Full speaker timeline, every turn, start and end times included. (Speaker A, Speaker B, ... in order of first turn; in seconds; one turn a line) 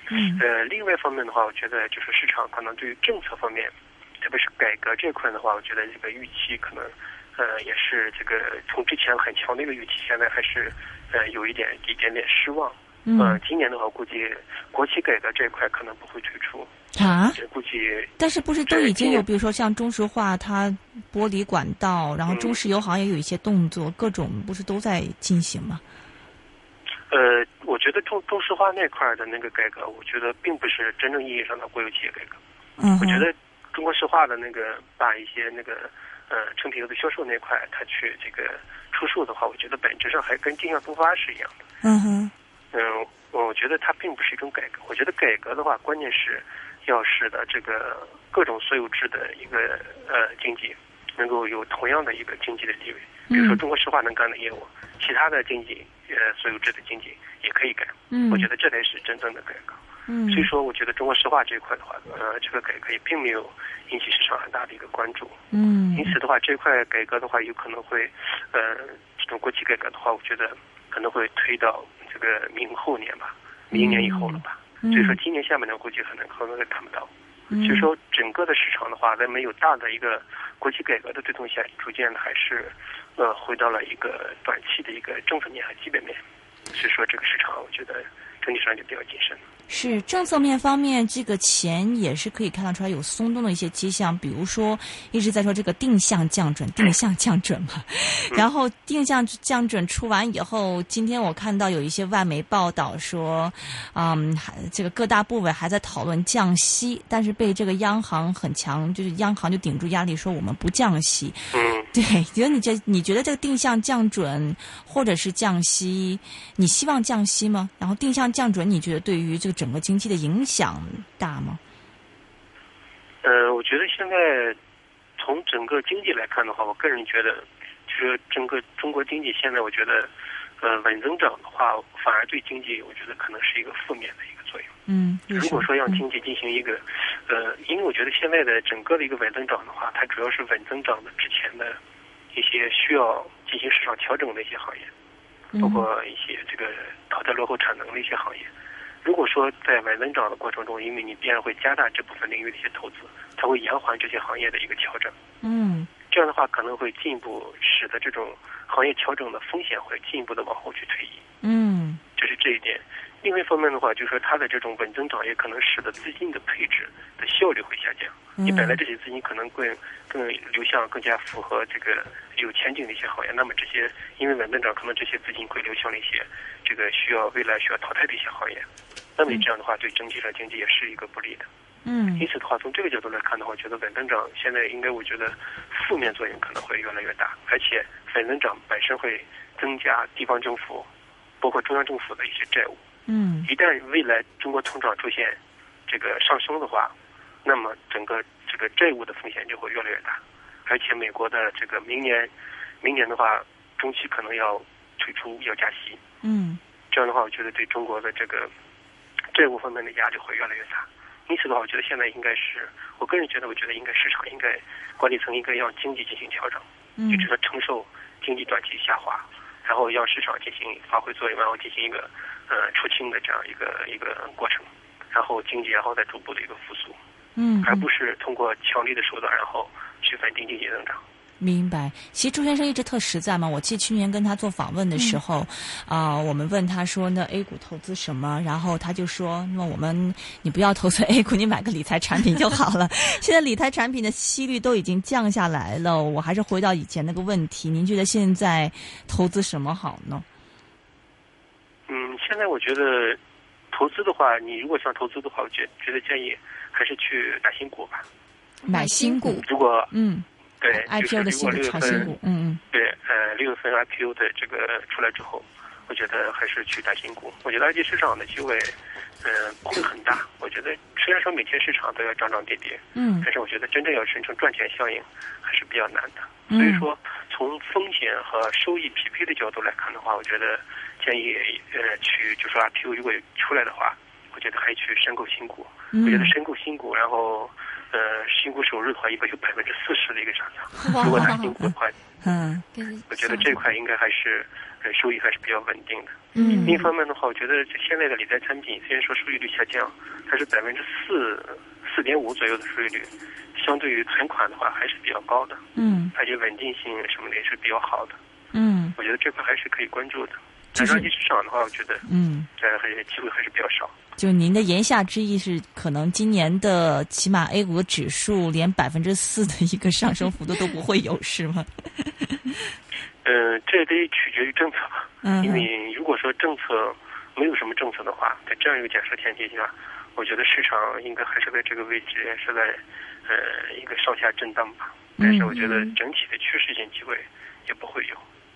Speaker A: 0.1-0.4
Speaker B: 0.3-16.7
Speaker A: 13.0-13.4
Speaker A: 16.9-17.4
Speaker B: 17.3-18.1
Speaker A: 18.2-25.8
Speaker B: 18.6-19.2
Speaker B: 22.3-22.6
Speaker B: 27.1-32.4
Speaker A: 32.8-33.3
Speaker B: 33.0-41.6
Speaker A: 41.8-42.3
Speaker B: 42.7-65.4
Speaker A: 53.3-53.6
Speaker A: 58.1-58.5
Speaker A: 60.1-60.5
Speaker A: 65.5-66.1
Speaker B: 65.9-86.2
Speaker A: 73.7-75.2
Speaker A: 77.5-77.9
Speaker B: 86.7-89.4
Speaker A: 89.7-121.6
Speaker B: 111.5-111.9
Speaker B: 123.2-124.6
Speaker B: 125.2-134.7
Speaker A: 134.9-136.0
Speaker B: 135.3-141.8
Speaker B: 142.3-144.9
Speaker A: 145.6-145.9
Speaker B: 145.6-148.5
Speaker B: 149.0-155.1
Speaker A: 155.4-155.9
Speaker B: 156.1-161.2
Speaker A: 161.4-162.0
Speaker B: 162.2-178.6
Speaker A: 168.4-168.8
Speaker B: 179.2-181.5
Speaker A: 181.8-182.2
Speaker B: 182.2-190.9
Speaker B: 191.4-192.8
Speaker A: 193.1-193.5
Speaker B: 193.4-206.0
Speaker A: 206.2-206.6
Speaker B: 206.9-208.5
Speaker B: 209.3-227.0
Speaker A: 217.0-217.3
Speaker A: 227.3-227.8
Speaker B: 227.6-231.0
Speaker A: 231.4-250.2
Speaker B: 251.9-253.2
Speaker B: 253.7-258.0
Speaker C: 258.7-259.4
Speaker A: 258.7-262.6
Speaker B: 259.4-259.9
Speaker B: 260.6-262.1
Speaker B: 262.7-291.9
Speaker A: 272.9-273.3
Speaker A: 276.5-276.9
Speaker A: 285.9-286.3
Speaker C: 290.8-291.6
Speaker A: 290.9-291.4
Speaker A: 292.2-292.6
Speaker C: 292.7-293.6
Speaker B: 293.1-308.2
Speaker C: 296.3-296.8
Speaker A: 296.4-296.8
Speaker A: 305.8-306.1
Speaker A: 308.5-308.9
Speaker B: 308.9-313.9
Speaker A: 310.7-311.1
Speaker A: 312.1-312.5
Speaker A: 314.2-322.4
Speaker B: 323.2-338.2
Speaker A: 325.2-325.7
Speaker A: 335.2-335.9